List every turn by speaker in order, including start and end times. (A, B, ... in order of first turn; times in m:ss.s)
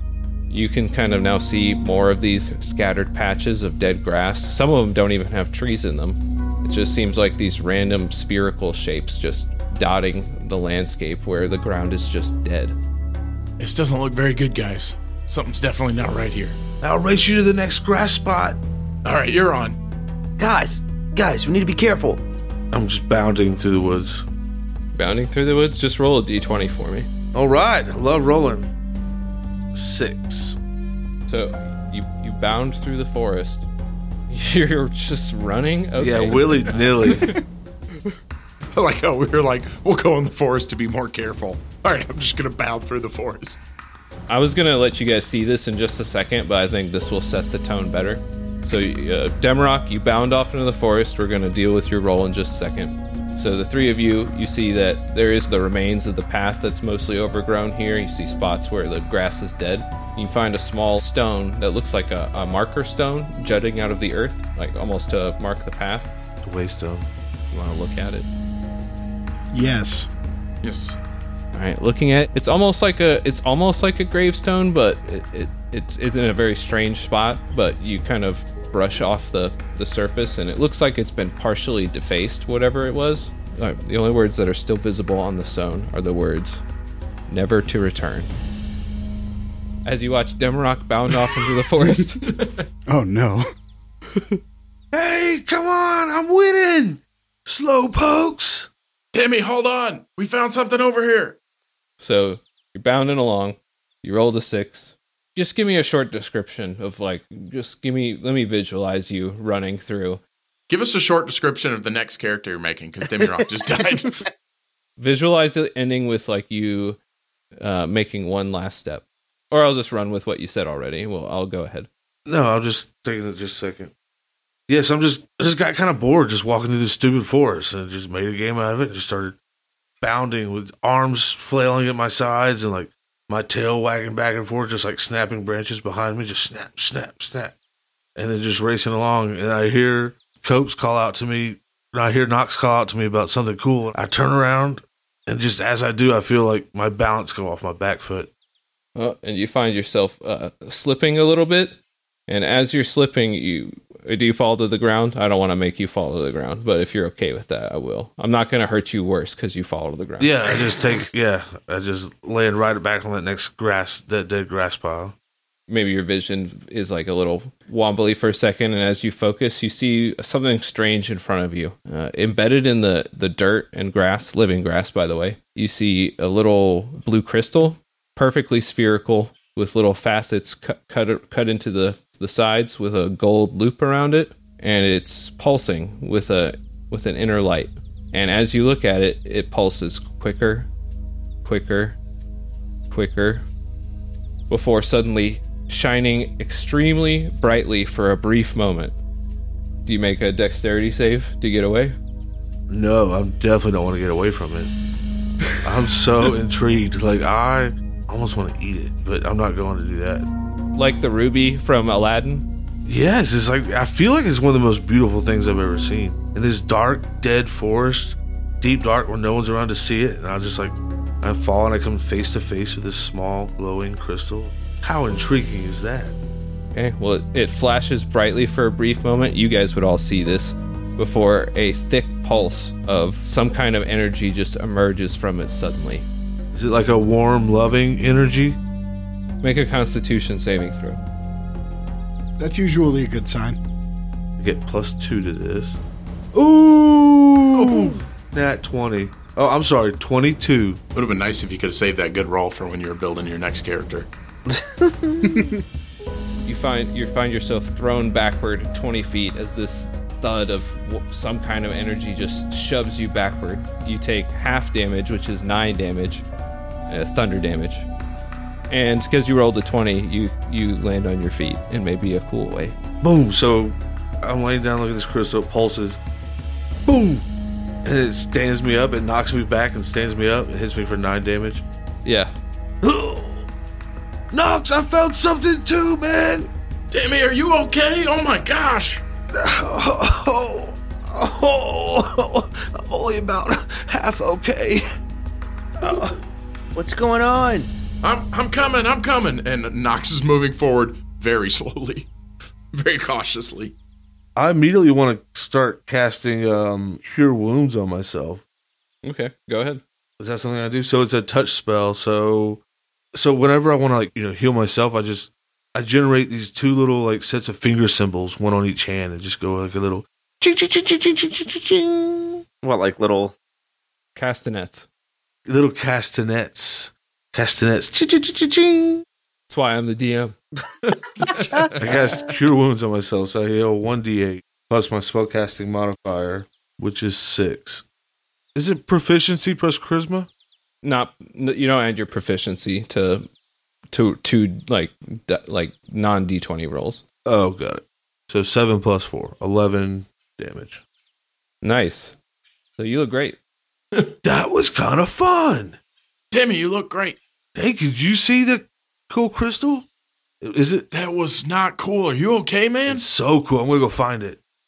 0:00.5-0:12.8 A
0:13.6-0:16.6 B
0:16.8-0:18.6 C
0:19.0-0:19.8 B
0:20.4-0:22.2 D
0:22.7-0:24.2 C
0:25.0-0:27.1 A
0:27.3-0:28.7 C
0:29.7-0:30.6 C
0:31.3-0:33.7 A
0:34.3-0:37.3 A
0:36.0-0:37.3 C
0:38.7-0:43.6 B
0:44.3-1:06.1 A
1:06.4-1:07.1 C
1:07.5-1:08.3 A
1:09.5-1:10.1 E
1:10.6-1:11.0 B
1:11.5-1:26.6 A
1:27.3-1:28.3 A
1:29.8-1:32.2 A
1:32.2-1:32.6 B
1:32.9-1:33.5 E
1:34.9-1:38.7 C
1:39.1-1:41.4 B
1:42.0-1:50.2 A
1:50.7-1:54.2 B
1:55.0-1:57.0 A
1:57.6-2:01.9 A
2:02.3-2:03.9 C
2:04.7-2:09.4 C
2:10.0-2:17.6 C
2:18.2-2:28.3 C
2:29.0-2:40.4 A
2:40.2-2:45.2 C
2:45.7-3:10.7 A
3:11.4-3:12.0 A
3:12.9-3:13.5 A
3:14.5-3:19.0 A
3:19.9-3:22.0 A
3:22.7-3:24.7 C
3:25.6-3:30.3 C
3:30.8-3:32.5 A
3:32.8-3:46.1 C
3:46.7-3:56.1 A
3:56.5-3:58.6 C
3:59.4-4:01.0 A
4:02.4-4:03.6 E
4:04.4-4:05.8 C
4:06.3-4:10.8 C
4:07.5-4:08.0 B
4:11.0-4:14.1 B
4:14.5-4:15.5 D
4:15.2-4:15.5 E
4:16.5-4:26.2 A
4:26.9-4:27.9 A
4:28.7-4:32.8 A
4:33.0-4:36.0 C
4:36.9-4:37.2 C
4:37.8-4:41.6 C
4:42.0-4:42.3 A
4:42.8-4:43.5 C
4:44.3-4:46.5 C
4:46.9-4:49.0 B
4:49.3-4:54.8 C
4:55.8-4:56.2 C
4:56.8-4:57.7 D
4:58.0-5:02.1 B
5:02.7-5:03.8 B
5:04.4-5:08.4 C
5:09.0-5:09.8 A
5:10.2-5:12.6 C
5:13.1-5:22.4 C
5:22.6-5:23.4 D
5:24.2-5:24.9 A
5:25.5-5:29.0 C
5:29.5-5:30.4 A
5:31.2-5:31.8 B
5:31.8-5:37.8 C
5:38.6-5:40.3 C
5:40.8-5:43.3 A
5:43.9-5:47.0 A
5:47.2-5:50.8 C
5:51.6-5:52.2 A
5:52.8-5:53.4 A
5:54.2-5:55.8 C
5:56.3-5:57.2 B
5:57.6-5:59.9 C
6:00.4-6:00.9 C
6:00.9-6:03.1 B
6:02.9-6:04.4 C